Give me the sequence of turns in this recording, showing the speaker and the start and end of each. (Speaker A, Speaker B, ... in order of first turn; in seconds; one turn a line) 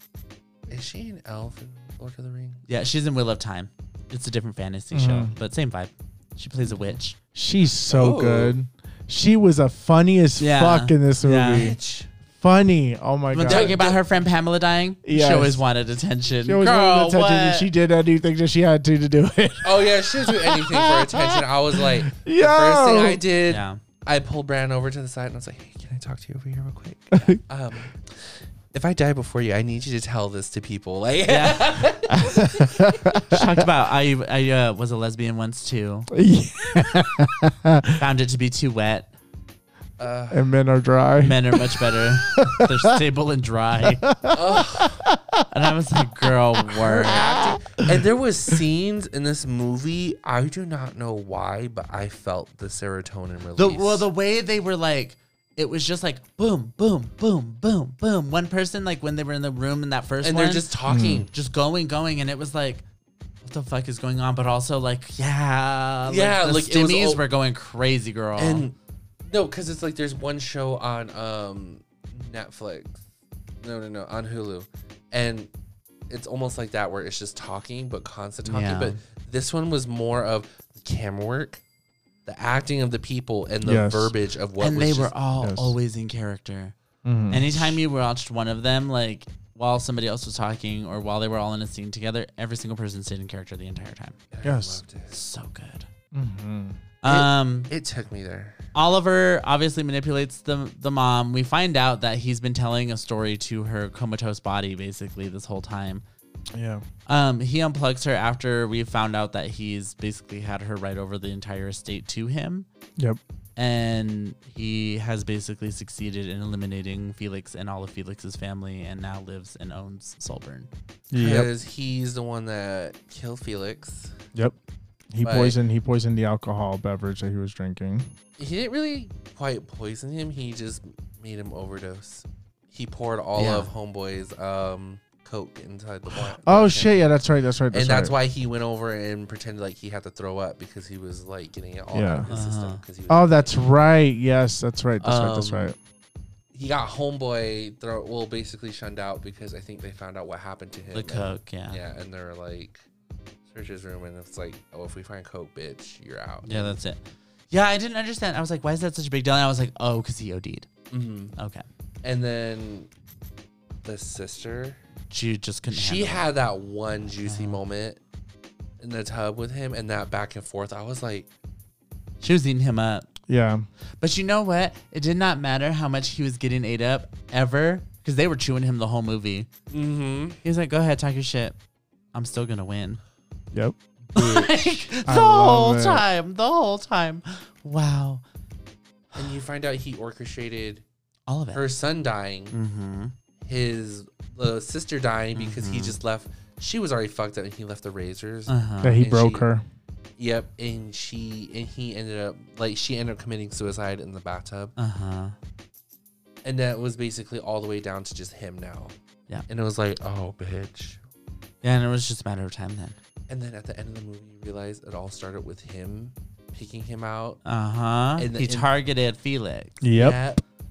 Speaker A: 0.7-2.6
Speaker B: 2.7-7.2
Speaker C: 4.9-5.3
Speaker C: 7.3-11.8
Speaker A: 7.9-8.6
Speaker B: 10.4-11.7
Speaker A: 11.5-12.1
Speaker C: 12.4-13.8
Speaker B: 13.3-17.7
Speaker A: 13.4-14.0
Speaker C: 15.0-15.6
Speaker C: 16.4-23.2
Speaker A: 19.6-32.9
Speaker B: 23.5-23.8
Speaker C: 27.1-27.4
Speaker B: 31.3-31.9
Speaker C: 32.1-33.6
Speaker B: 33.3-36.1
Speaker C: 36.1-38.0
Speaker B: 38.0-39.1
Speaker A: 40.0-40.4
Speaker C: 40.3-43.0
Speaker B: 41.2-44.0
Speaker C: 43.8-45.4
Speaker A: 44.3-45.0
Speaker B: 45.5-47.3
Speaker A: 46.7-54.1
Speaker C: 46.8-47.9
Speaker B: 53.6-60.7
Speaker A: 60.2-61.3
Speaker C: 60.9-61.3
Speaker B: 61.3-62.8
Speaker B: 63.4-68.7
Speaker A: 66.1-67.2
Speaker A: 68.4-68.7
Speaker A: 69.3-73.0
Speaker A: 73.6-75.5
Speaker A: 76.1-81.6
Speaker B: 78.5-79.0
Speaker A: 82.2-85.1
Speaker C: 83.6-84.1
Speaker B: 84.6-86.7
Speaker C: 85.4-85.8
Speaker C: 87.0-87.8
Speaker B: 87.3-94.2
Speaker A: 94.3-95.2
Speaker C: 94.4-94.8
Speaker B: 95.1-95.9
Speaker C: 96.1-96.8
Speaker B: 97.0-97.7
Speaker A: 97.0-98.6
Speaker B: 98.7-106.0
Speaker C: 106.5-106.8
Speaker B: 107.1-112.7
Speaker B: 113.5-120.7
Speaker C: 121.1-121.5
Speaker A: 121.1-124.1
Speaker C: 125.1-128.1
Speaker A: 125.2-125.6
Speaker A: 128.4-137.1
Speaker B: 133.4-133.7
Speaker C: 136.4-138.2
Speaker A: 137.7-143.6
Speaker C: 141.9-142.3
Speaker B: 142.3-142.8
Speaker C: 143.1-145.8
Speaker A: 145.0-145.7
Speaker A: 146.5-152.8
Speaker B: 150.9-151.8
Speaker A: 153.5-156.8
Speaker B: 156.4-160.7
Speaker A: 160.9-161.3
Speaker B: 161.3-161.6
Speaker A: 162.0-162.9
Speaker A: 163.8-164.8
Speaker B: 165.1-166.2
Speaker A: 165.7-168.0
Speaker B: 167.2-167.6
Speaker A: 168.8-171.3
Speaker B: 172.2-173.1
Speaker C: 173.3-173.7
Speaker B: 174.0-179.5
Speaker A: 179.7-180.4
Speaker B: 180.4-181.6
Speaker B: 182.1-183.0
Speaker A: 184.1-184.5
Speaker B: 184.1-188.2
Speaker C: 185.1-186.0
Speaker A: 189.1-190.8
Speaker B: 191.3-191.6
Speaker A: 191.5-192.5
Speaker B: 192.5-193.1
Speaker A: 193.4-199.5
Speaker B: 195.3-196.0
Speaker B: 198.5-199.0
Speaker C: 198.8-199.6
Speaker A: 200.2-204.7
Speaker B: 204.8-205.3
Speaker A: 206.4-208.9
Speaker A: 209.5-211.0
Speaker B: 211.6-212.9
Speaker A: 213.3-217.4
Speaker B: 217.4-219.8
Speaker A: 218.2-218.7
Speaker C: 219.8-220.2
Speaker A: 219.9-220.4